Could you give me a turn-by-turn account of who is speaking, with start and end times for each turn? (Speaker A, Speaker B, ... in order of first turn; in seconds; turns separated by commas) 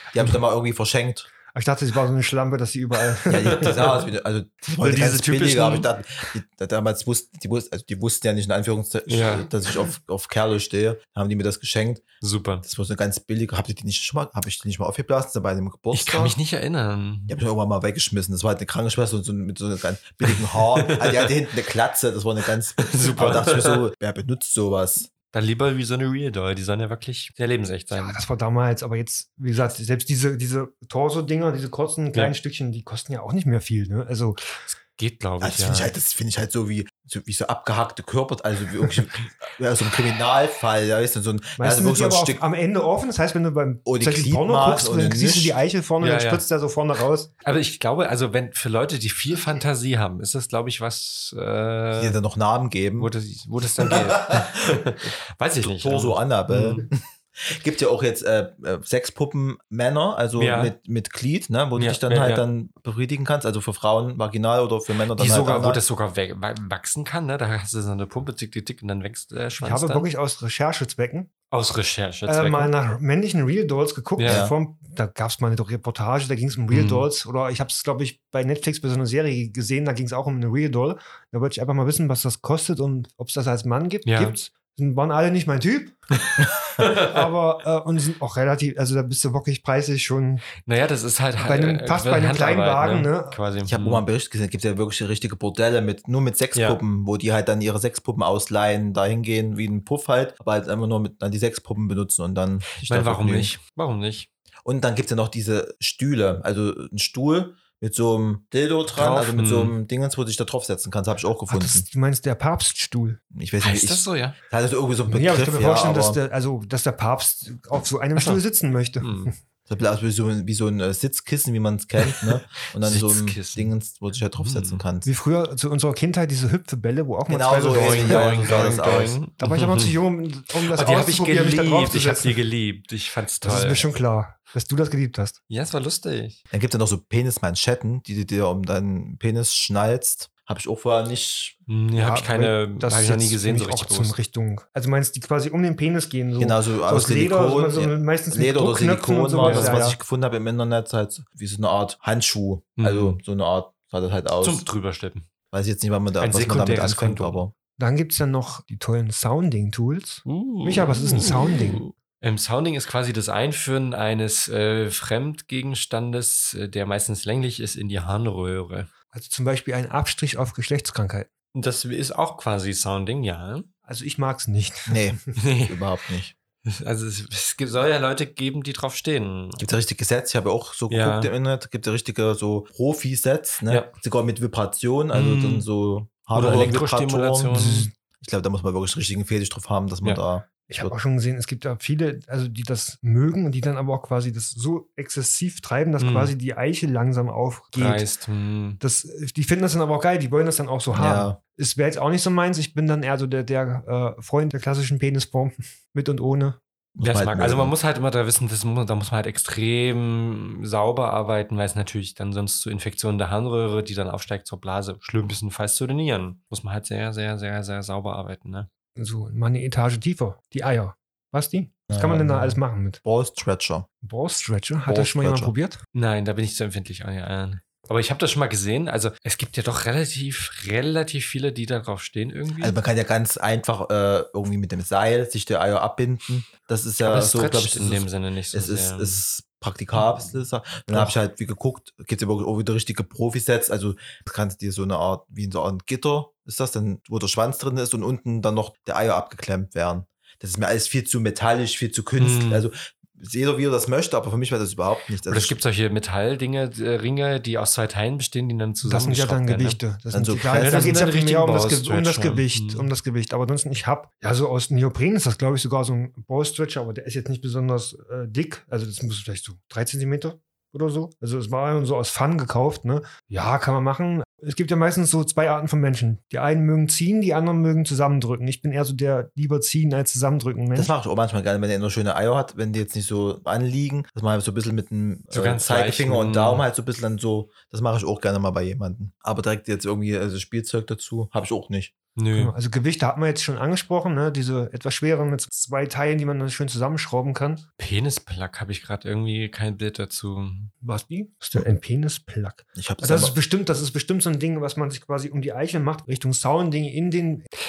Speaker A: 0.1-1.3, Speaker B: 1.5-3.9, Speaker A: 3.3-12.1, Speaker C: 3.4-3.9, Speaker B: 4.8-5.9, Speaker C: 9.1-9.5, Speaker C: 12.2-12.6, Speaker A: 12.6-16.4, Speaker C: 15.9-17.4, Speaker A: 17.3-25.1, Speaker C: 20.2-21.4, Speaker C: 22.8-23.9, Speaker C: 25.3-28.2, Speaker B: 27.9-34.4, Speaker C: 34.6-35.9, Speaker A: 35.4-42.4, Speaker B: 41.6-47.3, Speaker A: 43.8-45.6, Speaker C: 46.0-46.4, Speaker C: 47.4-52.2, Speaker A: 52.0-53.1, Speaker C: 53.0-56.9, Speaker A: 54.0-54.4, Speaker A: 55.6-65.8, Speaker C: 60.4-60.7, Speaker C: 61.8-62.4, Speaker C: 65.1-70.1, Speaker B: 69.6-71.3, Speaker C: 71.5-72.7, Speaker B: 72.3-86.0, Speaker C: 74.2-74.5, Speaker A: 74.2-74.5, Speaker C: 76.7-77.1, Speaker C: 84.0-84.3, Speaker C: 86.2-87.2, Speaker B: 86.9-90.5, Speaker C: 90.6-94.0, Speaker B: 91.4-93.4, Speaker A: 93.6-103.5, Speaker C: 96.5-96.8, Speaker C: 102.7-104.3, Speaker A: 104.6-111.8, Speaker C: 108.9-109.8, Speaker B: 111.5-113.2, Speaker A: 113.3-116.2, Speaker C: 113.6-114.4, Speaker B: 115.1-119.3, Speaker C: 118.2-118.4, Speaker C: 119.0-119.3, Speaker A: 119.7-125.1, Speaker C: 122.0-123.7, Speaker C: 124.4-124.8, Speaker B: 125.0-128.8, Speaker A: 127.3-129.2, Speaker C: 127.7-129.9, Speaker B: 129.4-132.4, Speaker C: 130.7-133.9, Speaker B: 133.4-135.4, Speaker C: 135.5-136.4, Speaker A: 136.5-141.6, Speaker C: 141.7-144.2, Speaker B: 142.0-150.0, Speaker A: 146.4-154.7, Speaker C: 149.4-149.8, Speaker C: 152.8-153.2, Speaker C: 154.4-155.3, Speaker A: 155.5-157.5, Speaker C: 156.2-157.4, Speaker B: 157.8-161.8, Speaker C: 160.2-168.9, Speaker B: 169.1-171.3, Speaker C: 171.5-173.7, Speaker B: 173.9-175.2, Speaker A: 174.9-176.3, Speaker C: 175.3-175.8, Speaker C: 176.6-179.6, Speaker A: 179.6-187.6, Speaker C: 180.9-181.3, Speaker C: 185.1-185.7, Speaker C: 186.3-187.9, Speaker B: 187.5-187.9, Speaker A: 188.2-190.9, Speaker B: 190.7-198.1, Speaker C: 196.0-196.3, Speaker C: 197.8-198.8, Speaker B: 198.8-206.6, Speaker A: 200.9-201.4, Speaker A: 206.9-207.7, Speaker C: 207.0-218.7, Speaker B: 219.0-223.0, Speaker A: 221.9-223.9, Speaker B: 224.0-225.8, Speaker A: 224.8-225.5, Speaker C: 225.9-232.8, Speaker A: 232.6-255.6, Speaker C: 237.0-239.2, Speaker C: 240.0-240.2, Speaker C: 252.2-252.7, Speaker C: 255.3-259.8, Speaker B: 258.8-280.9, Speaker A: 260.1-261.0, Speaker C: 260.6-262.9, Speaker A: 280.7-291.9, Speaker C: 285.3-286.6, Speaker C: 292.1-292.5, Speaker B: 292.3-297.6, Speaker C: 297.8-300.7, Speaker B: 300.8-307.4, Speaker A: 302.8-303.3